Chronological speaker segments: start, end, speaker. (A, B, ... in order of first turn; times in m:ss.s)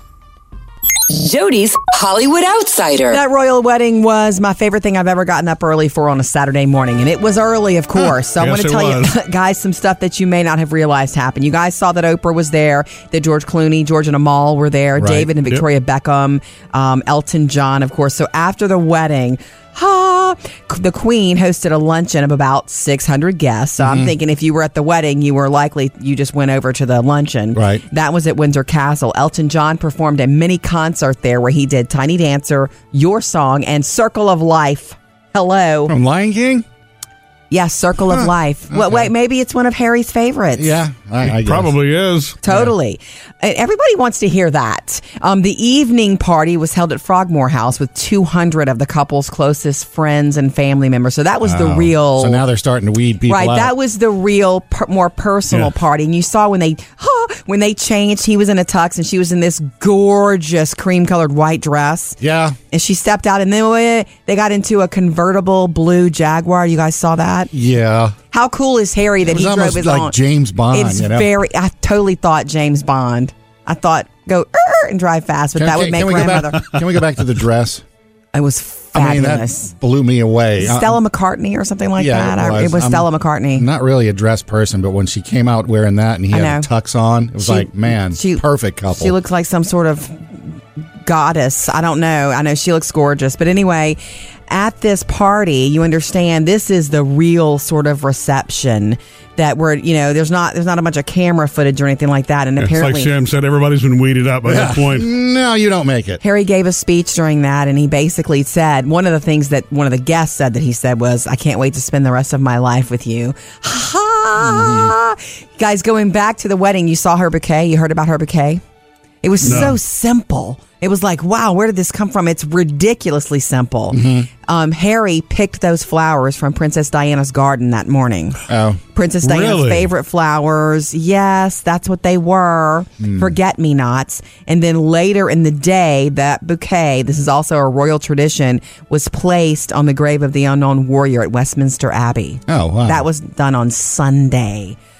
0:01.1-0:03.2 A
0:03.1-0:35.9 B
0:08.4-0:09.1 C
0:15.0-0:15.3 D
0:23.8-0:24.1 D
0:27.5-0:27.8 D
0:35.9-0:36.6 D
0:37.5-0:40.7 B
0:38.1-0:39.1 D
0:40.5-0:41.7 D
0:41.2-0:42.4 C
0:42.4-0:52.4 B
0:51.4-0:53.7 D
0:53.3-1:02.2 B
1:02.2-1:02.6 D
1:02.7-1:07.5 B
1:07.5-1:08.2 D
1:08.3-1:10.2 B
1:09.2-1:11.3 D
1:10.7-1:16.7 B
1:15.6-1:17.8 D
1:18.3-1:19.7 B
1:18.9-1:21.0 D
1:20.6-1:23.6 B
1:22.0-1:29.1 D
1:26.3-1:26.7 B
1:27.4-1:30.5 B
1:31.0-1:43.1 B
1:42.6-1:45.1 C
1:44.4-1:46.2 D
1:46.2-1:58.6 B
1:54.4-1:54.9 D
1:59.2-2:08.4 B
1:59.4-1:59.8 C
1:59.5-1:59.7 D
2:03.9-2:04.3 D
2:08.5-2:08.8 D
2:08.9-2:24.8 B
2:09.2-2:09.9 C
2:13.0-2:13.3 D
2:22.5-2:23.0 D